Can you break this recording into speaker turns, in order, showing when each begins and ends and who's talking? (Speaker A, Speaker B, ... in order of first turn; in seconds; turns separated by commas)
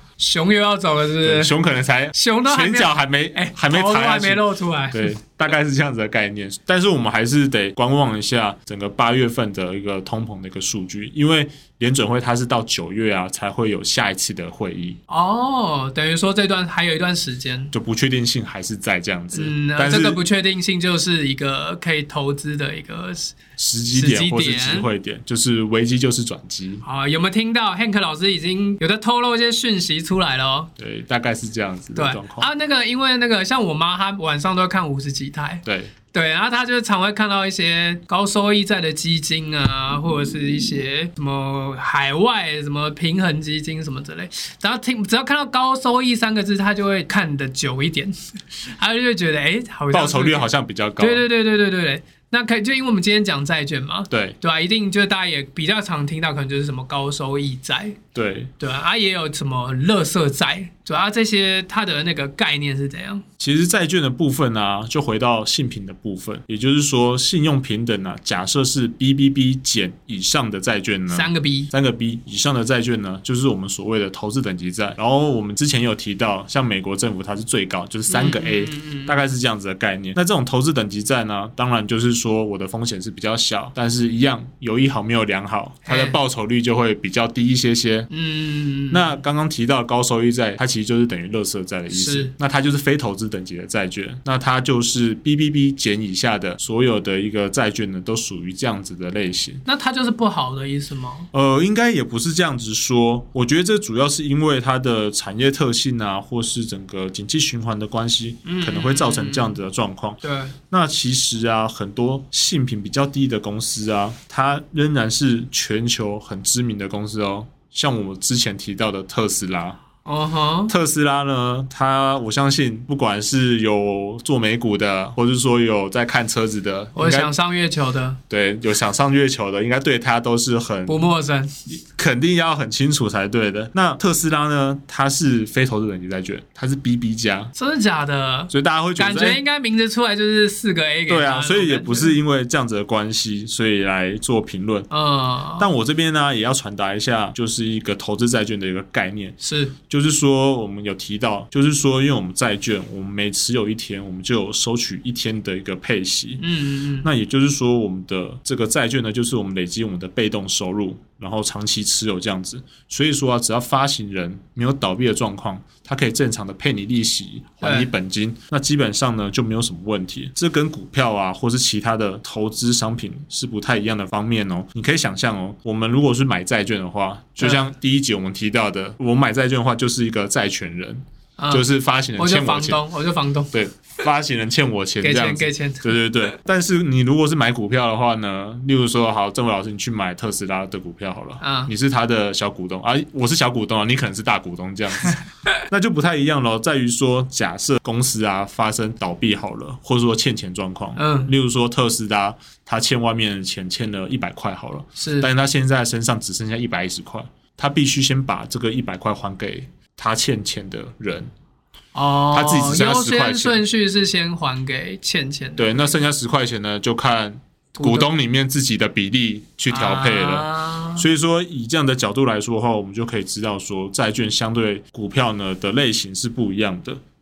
Speaker A: 0.2-1.5, Speaker B: 1.2-15.0, Speaker A: 2.1-5.2, Speaker A: 15.1-17.7, Speaker B: 17.7-20.2, Speaker A: 19.3-23.4, Speaker B: 23.6-26.8, Speaker A: 23.9-24.9, Speaker A: 26.8-30.7, Speaker B: 30.8-32.5, Speaker A: 31.9-58.0, Speaker B: 35.6-35.9, Speaker B: 49.9-51.3, Speaker B: 54.1-54.4, Speaker B: 58.1-58.5, Speaker A: 58.6-63.2, Speaker B: 63.4-88.1, Speaker A: 71.1-71.7, Speaker A: 78.1-79.2, Speaker A: 85.8-86.2, Speaker A: 88.1-89.1, Speaker B: 88.9-99.6, Speaker A: 91.9-92.3, Speaker A: 99.6-101.3, Speaker B: 101.3-119.8, Speaker A: 108.4-109.6, Speaker A: 110.2-110.5, Speaker A: 120.0-120.7, Speaker B: 120.7-127.3, Speaker A: 127.0-128.2, Speaker B: 128.3-131.0, Speaker A: 130.9-131.6, Speaker B: 131.7-137.5, Speaker A: 137.6-142.2, Speaker B: 138.5-139.4, Speaker B: 141.1-144.9, Speaker A: 144.9-145.7, Speaker B: 145.6-149.3, Speaker A: 149.4-149.8, Speaker B: 149.9-156.5, Speaker A: 156.4-157.1, Speaker B: 157.0-182.8, Speaker A: 167.6-167.9, Speaker A: 177.4-177.7, Speaker A: 181.4-181.7, Speaker A: 182.2-183.5, Speaker B: 183.5-211.3, Speaker A: 185.0-185.9, Speaker A: 191.4-191.7, Speaker A: 201.0-201.3, Speaker A: 205.0-205.3, Speaker A: 211.9-215.9, Speaker B: 212.3-213.6, Speaker B: 215.6-227.0, Speaker A: 217.8-218.1, Speaker A: 219.7-221.1